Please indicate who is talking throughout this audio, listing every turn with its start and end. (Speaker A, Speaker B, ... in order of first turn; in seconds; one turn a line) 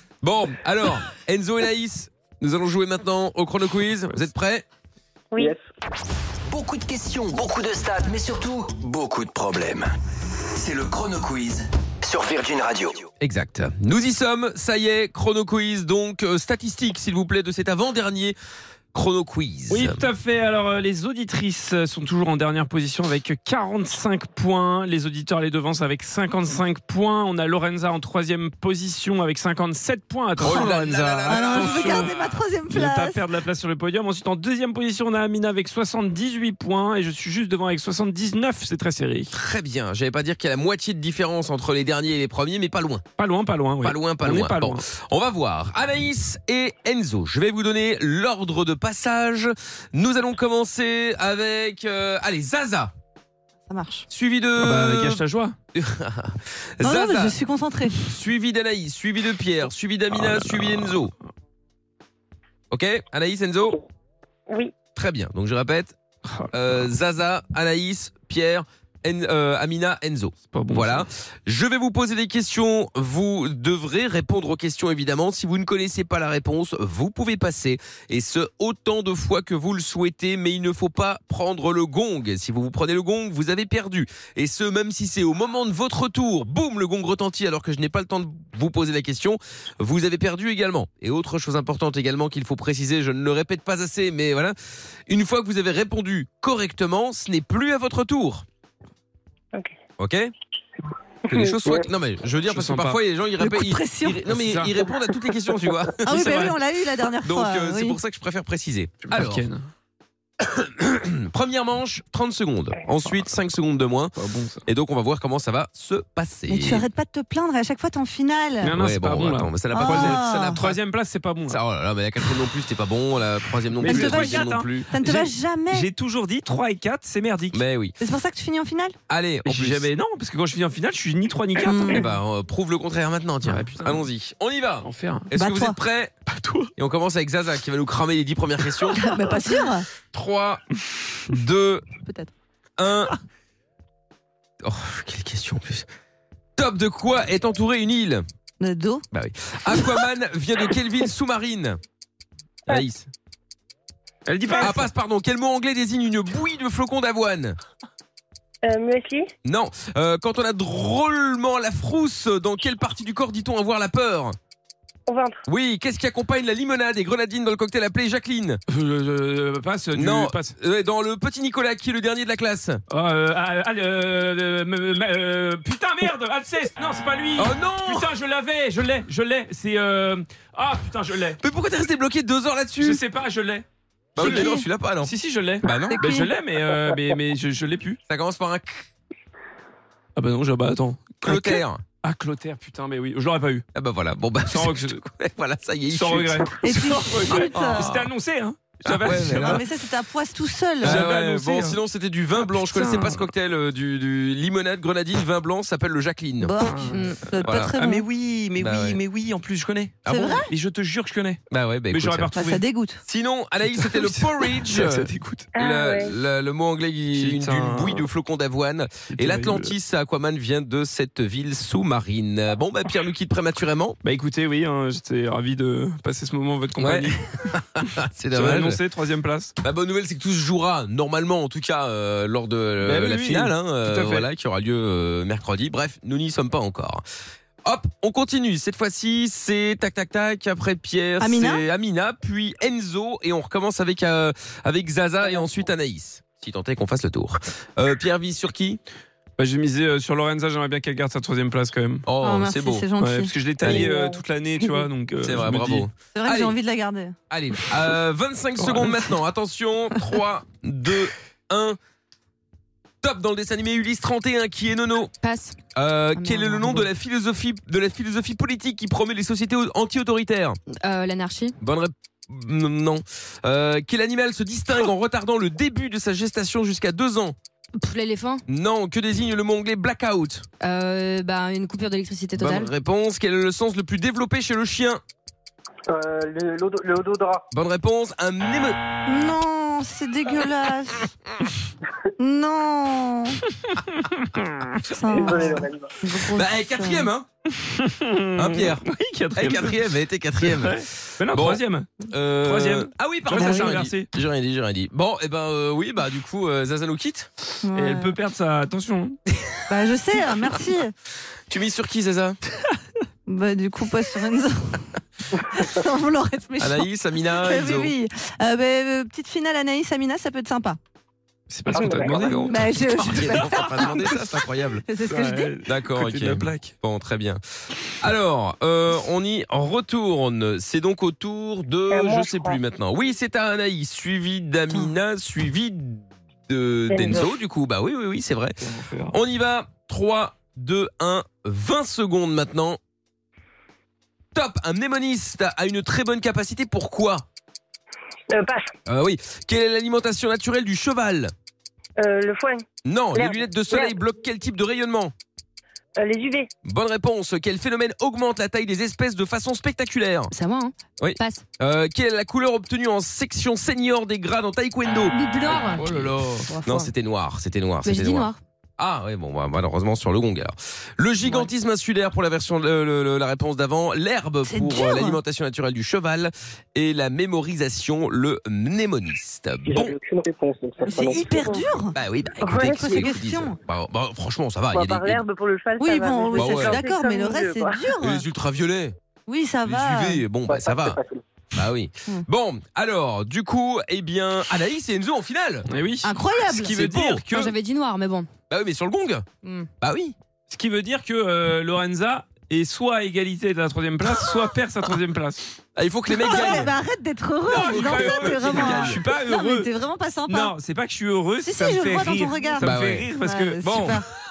Speaker A: 0.2-4.7
Speaker B: 5.3-5.6
Speaker C: 6.5-9.9
Speaker C: 10.6-13.1
Speaker A: 13.2-18.4
Speaker A: 18.9-20.1
Speaker D: 19.7-32.2
Speaker A: 30.4-32.4
Speaker E: 30.4-30.7
Speaker E: 31.3-33.2
Speaker D: 32.7-39.3
Speaker A: 39.3-43.0
Speaker D: 43.2-44.8
Speaker A: 43.8-52.9
Speaker E: 53.7-54.1
Speaker A: 54.1-55.2
Speaker D: 54.6-55.5
Speaker A: 55.8-57.4
Speaker E: 56.8-58.1
Speaker A: 58.0-61.1
Speaker D: 60.1-61.1
Speaker A: 62.7-63.8
Speaker A: 65.0-66.0
Speaker D: 66.3-66.9
Speaker A: 66.5-94.5
Speaker D: 70.5-71.1
Speaker A: 95.1-98.5
Speaker A: 100.0-100.3
Speaker A: 101.3-106.5
Speaker B: 101.3-101.9
Speaker D: 102.5-103.0
Speaker E: 103.4-104.2
Speaker D: 104.3-104.8
Speaker E: 106.1-108.0
Speaker D: 106.2-106.5
Speaker A: 107.2-109.5
Speaker D: 109.0-109.6
Speaker A: 110.5-114.1
Speaker D: 114.2-114.6
Speaker A: 114.7-116.8
Speaker E: 116.5-118.7
Speaker D: 118.6-121.6
Speaker A: 118.7-120.3
Speaker E: 119.7-120.6
Speaker A: 121.5-124.9
Speaker D: 123.8-127.6
Speaker E: 123.8-125.9
Speaker A: 127.5-128.0
Speaker E: 128.0-128.9
Speaker A: 129.1-129.9
Speaker D: 129.5-132.0
Speaker E: 131.6-132.0
Speaker A: 131.9-136.1
Speaker D: 133.4-134.1
Speaker D: 134.8-135.3
Speaker E: 135.3-135.8
Speaker D: 136.3-136.7
Speaker A: 136.8-139.0
Speaker E: 138.9-139.8
Speaker A: 140.1-140.6
Speaker A: 141.3-141.8
Speaker E: 142.0-142.3
Speaker A: 142.8-143.1
Speaker A: 144.6-145.9
Speaker A: 146.6-148.2
Speaker E: 148.6-149.0
Speaker A: 149.1-151.8
Speaker A: 152.7-153.1
Speaker D: 154.3-154.9
Speaker A: 154.6-157.6
Speaker F: 158.6-159.3
Speaker A: 159.4-164.4
Speaker F: 165.1-165.4
Speaker A: 165.5-168.6
Speaker D: 168.7-170.5
Speaker A: 169.9-172.8
Speaker D: 172.9-181.4
Speaker A: 177.4-178.1
Speaker A: 181.4-183.0
Speaker D: 182.8-183.7
Speaker A: 184.2-185.1
Speaker D: 184.2-188.0
Speaker E: 184.2-184.6
Speaker A: 185.6-186.1
Speaker E: 185.7-186.3
Speaker A: 188.1-188.8
Speaker D: 190.2-193.6
Speaker A: 191.2-191.8
Speaker A: 193.7-196.5
Speaker D: 194.5-195.0
Speaker D: 195.9-199.6
Speaker E: 196.6-197.9
Speaker A: 197.3-198.1
Speaker A: 198.8-199.6
Speaker E: 199.3-201.0
Speaker D: 200.8-201.8
Speaker A: 200.8-206.5
Speaker D: 202.4-203.3
Speaker E: 206.4-208.1
Speaker D: 206.7-211.4
Speaker A: 207.4-207.8
Speaker A: 208.6-209.0
Speaker A: 210.1-210.4
Speaker E: 210.1-210.5
Speaker A: 211.5-212.3
Speaker D: 211.9-212.6
Speaker E: 212.3-213.0
Speaker A: 213.1-224.0
Speaker D: 213.7-215.5
Speaker F: 215.6-216.1
Speaker D: 217.2-218.1
Speaker D: 219.1-219.7
Speaker D: 224.0-227.2
Speaker A: 226.8-228.8
Speaker D: 228.3-229.5
Speaker A: 229.6-237.0
Speaker D: 232.8-234.3
Speaker A: 237.7-248.8
Speaker E: 241.2-241.6
Speaker D: 249.4-252.1
Speaker A: 252.1-252.9
Speaker E: 252.2-253.9
Speaker D: 253.0-255.9
Speaker A: 253.6-253.9
Speaker A: 255.2-256.6
Speaker E: 256.1-257.1
Speaker A: 257.3-261.8
Speaker D: 258.6-259.0
Speaker A: 263.0-265.1
Speaker G: 265.2-265.6
Speaker A: 265.8-270.6
Speaker G: 266.1-266.9
Speaker G: 270.8-271.6
Speaker A: 271.6-277.4
Speaker G: 277.8-278.4
Speaker A: 278.5-280.5
Speaker G: 280.6-282.7
Speaker A: 282.4-285.0
Speaker B: 285.9-287.4
Speaker A: 287.5-288.8
Speaker E: 289.1-291.1
Speaker E: 292.2-293.4
Speaker D: 294.0-294.5
Speaker E: 294.9-297.1
Speaker B: 295.1-295.9
Speaker A: 296.3-297.3
Speaker D: 297.6-299.8
Speaker A: 298.4-298.8
Speaker A: 299.4-307.3
Speaker D: 300.4-304.1
Speaker E: 303.3-303.8
Speaker E: 307.6-308.1
Speaker D: 307.8-309.2
Speaker E: 309.7-310.9
Speaker A: 311.5-312.4
Speaker E: 313.3-314.8
Speaker E: 315.5-320.8
Speaker A: 316.6-317.9
Speaker D: 321.5-323.9
Speaker B: 321.7-322.5
Speaker E: 322.5-324.0
Speaker A: 323.0-324.9
Speaker E: 324.9-325.6
Speaker D: 325.1-326.7
Speaker A: 325.7-327.4
Speaker A: 328.0-338.6
Speaker F: 331.9-332.6
Speaker F: 336.9-337.3
Speaker D: 338.6-339.1
Speaker A: 339.1-342.8
Speaker A: 344.3-347.2
Speaker F: 348.3-348.7
Speaker A: 348.9-351.3
Speaker F: 352.0-352.6
Speaker A: 352.9-355.1
Speaker F: 353.1-353.9
Speaker F: 356.0-356.5
Speaker A: 356.6-360.3
Speaker G: 360.3-361.4
Speaker A: 361.0-379.9
Speaker G: 365.1-365.8
Speaker D: 365.8-366.4
Speaker G: 366.5-366.8
Speaker G: 367.9-368.4
Speaker E: 374.4-375.2
Speaker B: 379.7-381.7
Speaker E: 380.9-381.9
Speaker A: 381.9-385.2
Speaker F: 382.4-382.9
Speaker E: 382.6-383.6
Speaker F: 384.7-387.8
Speaker E: 385.8-388.2
Speaker A: 386.3-386.9
Speaker A: 388.0-388.9
Speaker E: 389.3-390.2
Speaker A: 389.6-391.0
Speaker B: 390.5-391.2
Speaker A: 391.5-395.7
Speaker D: 395.7-397.3
Speaker E: 396.0-396.8
Speaker A: 396.6-397.5
Speaker G: 397.3-398.3
Speaker A: 398.5-399.3
Speaker G: 399.4-399.7
Speaker A: 399.8-400.1
Speaker D: 400.5-405.4
Speaker A: 405.8-406.7
Speaker E: 406.2-410.5
Speaker D: 406.3-406.6
Speaker D: 407.5-409.7
Speaker A: 407.6-409.0
Speaker D: 410.3-414.0
Speaker E: 411.4-414.0
Speaker A: 412.6-413.1
Speaker A: 413.6-414.0